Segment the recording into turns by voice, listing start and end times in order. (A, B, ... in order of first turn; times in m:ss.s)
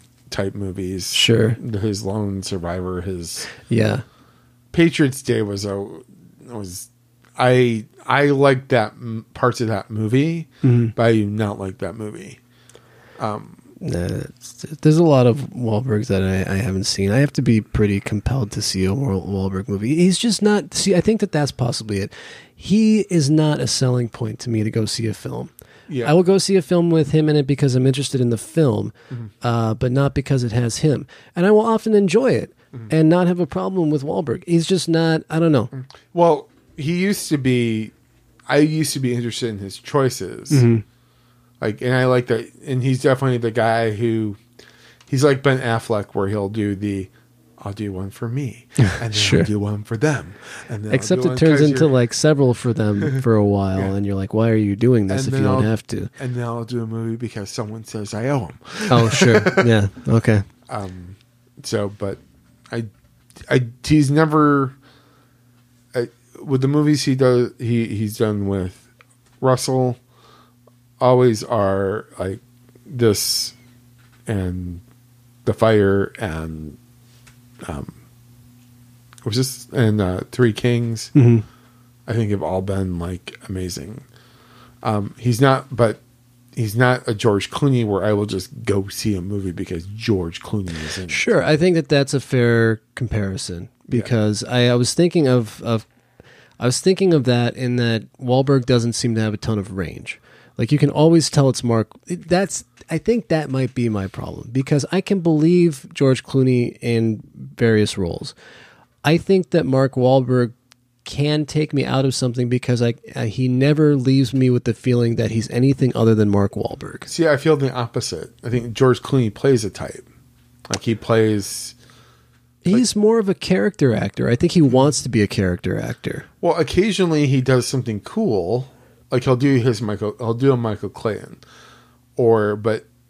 0:00.3-0:03.5 A
0:01.1-0:01.6 B
0:03.6-0:04.0 B
0:04.7-0:12.4 A
0:10.6-0:10.9 B
0:13.2-0:13.7 A
0:13.8-0:25.5 B
0:25.9-0:26.1 A
0:26.0-0:35.7 B
0:35.7-0:37.9 A
0:38.5-0:40.6 A
0:40.5-0:40.8 B
0:41.6-0:44.4 A
0:45.1-0:52.0 A
0:48.8-0:49.5 B
0:50.9-0:56.1 B
0:55.1-0:59.7 A
0:58.9-1:00.4 B
1:00.7-1:02.9 A
1:03.5-1:04.8 A
1:05.9-1:08.9 A
1:09.4-1:10.0 A
1:11.0-1:13.6 A
1:14.3-1:14.8 A
1:15.4-1:16.8 A
1:17.6-1:18.0 A
1:19.2-1:21.1 A
1:21.2-1:21.4 B
1:22.1-1:24.1 A
1:24.8-1:26.0 A
1:26.6-1:31.4 A
1:31.1-1:35.9 B
1:36.6-1:48.3 B
1:49.0-1:50.5 B
1:51.0-1:57.1 B
1:57.1-2:00.1 A
2:00.7-2:01.8 A
2:02.6-2:06.3 B
2:04.7-2:05.0 A
2:06.4-2:11.4 A
2:12.2-2:12.9 A